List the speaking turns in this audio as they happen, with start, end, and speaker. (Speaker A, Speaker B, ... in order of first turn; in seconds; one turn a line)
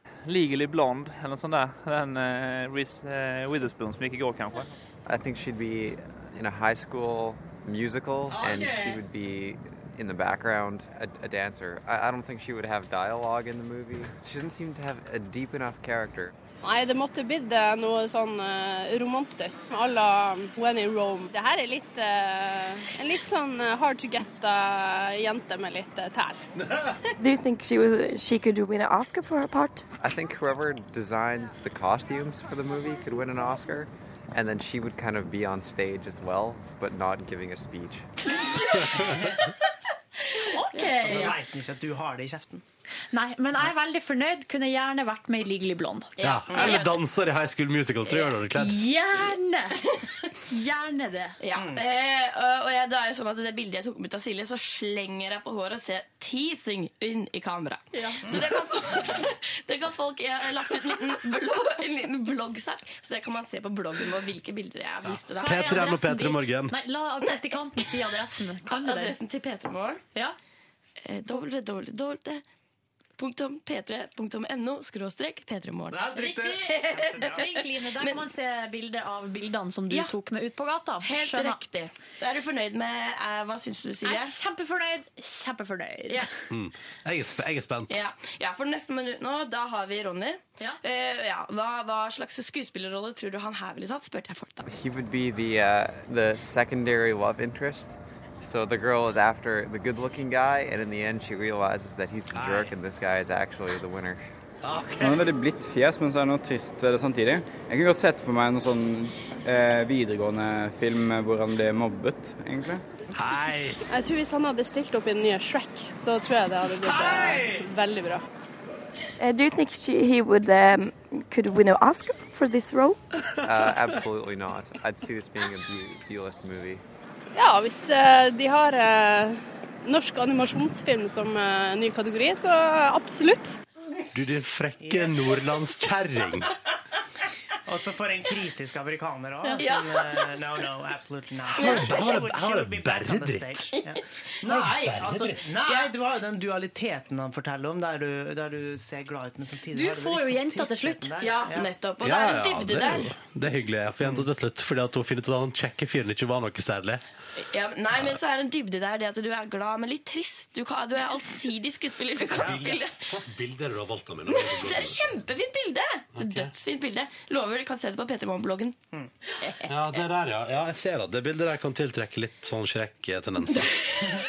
Speaker A: 0.3-4.8
Speaker B: 5.0-16.3
Speaker C: 8.4-8.9
Speaker D: 16.6-26.4
Speaker E: 27.2-29.8
Speaker B: 30.0-38.1
Speaker F: 40.4-41.4
Speaker G: 41.0-42.6
Speaker F: 43.1-46.9
Speaker C: 46.2-48.9
Speaker F: 48.5-49.9
Speaker F: 50.5-51.4
Speaker G: 51.5-51.8
Speaker H: 51.5-57.8
Speaker F: 57.9-58.4
Speaker H: 59.7-65.0
Speaker C: 65.0-66.7
Speaker F: 65.4-69.2
Speaker H: 68.8-70.0
Speaker H: 71.1-72.4
Speaker H: 73.2-75.8
Speaker C: 75.9-76.8
Speaker F: 76.1-81.6
Speaker G: 76.9-77.4
Speaker H: 81.3-84.2
Speaker F: 84.0-86.3
Speaker C: 86.5-88.0
Speaker H: 88.1-94.6
Speaker B: 94.7-104.2
Speaker C: 102.3-102.7
Speaker C: 104.6-105.2
Speaker I: 105.0-112.8
Speaker C: 113.1-113.8
Speaker D: 113.9-118.2
Speaker C: 116.8-117.6
Speaker E: 119.2-123.0
Speaker B: 123.4-126.8
Speaker D: 127.3-133.6
Speaker C: 134.1-136.5
Speaker G: 134.8-135.4
Speaker G: 137.7-151.7
Speaker C: 141.6-143.7
Speaker C: 144.4-145.5
Speaker F: 149.7-151.1
Speaker H: 151.5-151.8
Speaker C: 152.0-157.0
Speaker H: 157.6-161.9
Speaker C: 162.2-165.0
Speaker G: 162.3-162.7
Speaker H: 165.3-165.8
Speaker C: 166.2-166.5
Speaker H: 166.7-168.7
Speaker E: 167.9-168.2
Speaker C: 169.7-173.8